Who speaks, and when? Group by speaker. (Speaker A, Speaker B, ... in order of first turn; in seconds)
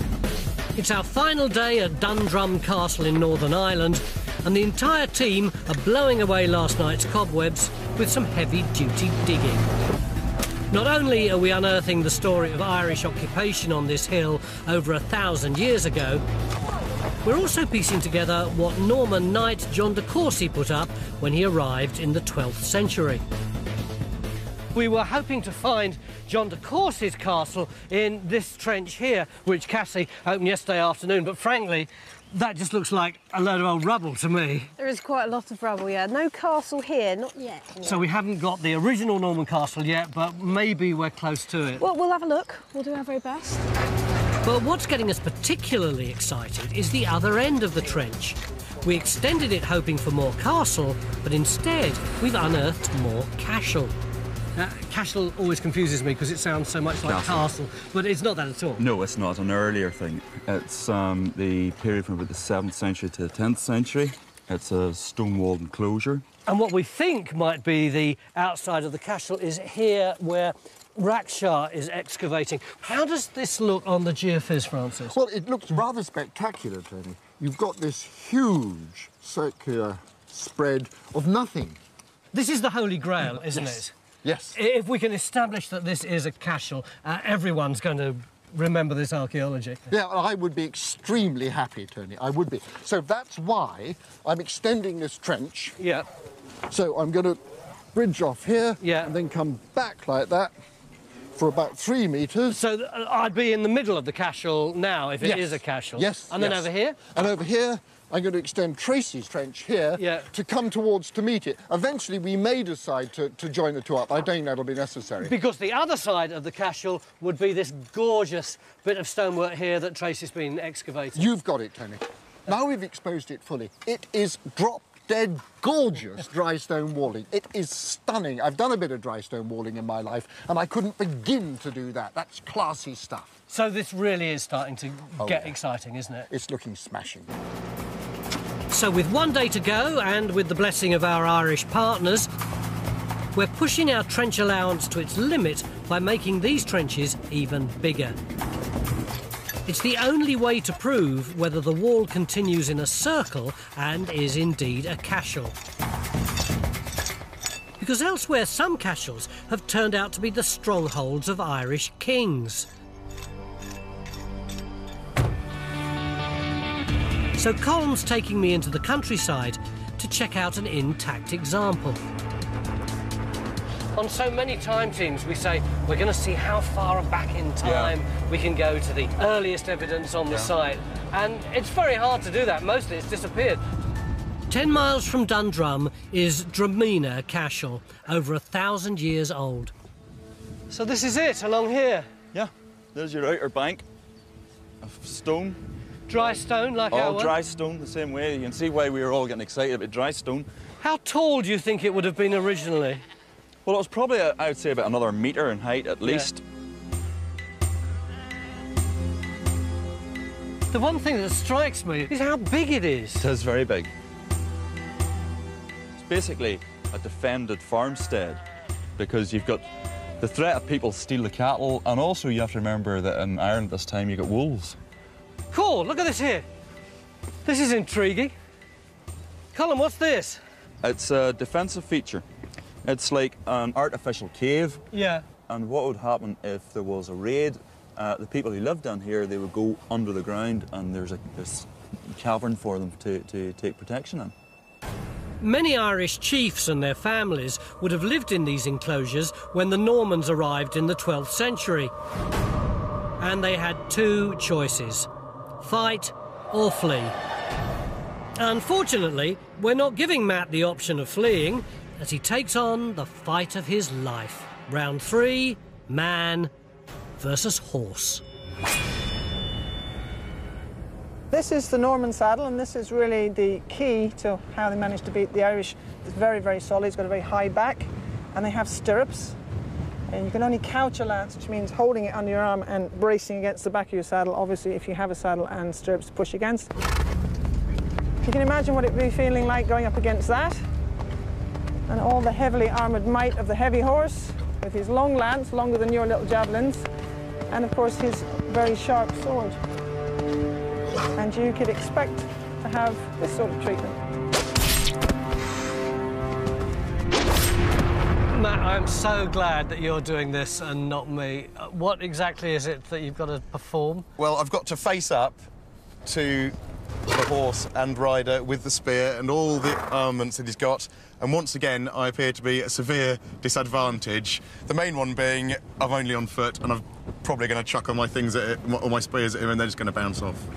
Speaker A: 0.8-9.7, 10.7-16.2, 17.2-23.2, 24.7-34.7, 37.8-41.8, 44.4-53.9, 54.5-58.8, 66.5-75.2, 82.3-83.9, 84.5-89.8, 95.8-96.0, 98.8-99.1, 102.5-107.0, 110.0-110.3, 115.2-121.3, 133.5-136.3, 138.7-142.3, 143.3-148.2, 149.7-155.6, 157.8-162.7, 167.4-172.0, 173.9-183.6, 184.5-189.7, 190.7-192.1, 196.1-197.3, 200.8-203.0, 206.0-206.3, 210.7-213.2, 225.5-226.4, 227.4-228.3, 229.5-230.4, 234.9-235.2, 245.4-251.9, 253.2-255.1, 255.6-257.2, 258.4-266.5, 267.2-268.2, 308.3-314.1
Speaker B: 34.8-38.0, 41.8-43.6
Speaker C: 57.0-57.5, 58.8-66.2, 177.6-177.9, 192.3-193.8, 194.8-195.6, 196.9-200.5, 203.7-206.4, 213.2-213.9, 216.0-218.4, 219.0-219.6, 220.2-224.8, 230.8-232.2, 232.8-234.8, 235.5-244.3
Speaker D: 75.1-81.8, 83.5-84.6, 89.9-95.8, 96.7-97.4, 97.9-100.5, 101.3-102.6, 105.2-115.3, 121.1-133.4, 135.2-135.5, 136.3-137.3
Speaker E: 271.3-279.4, 280.1-286.7, 288.2-290.6, 291.9-296.9, 297.5-299.6, 301.1-304.0
Speaker F: 314.2-315.4, 316.0-316.6, 317.1-330.5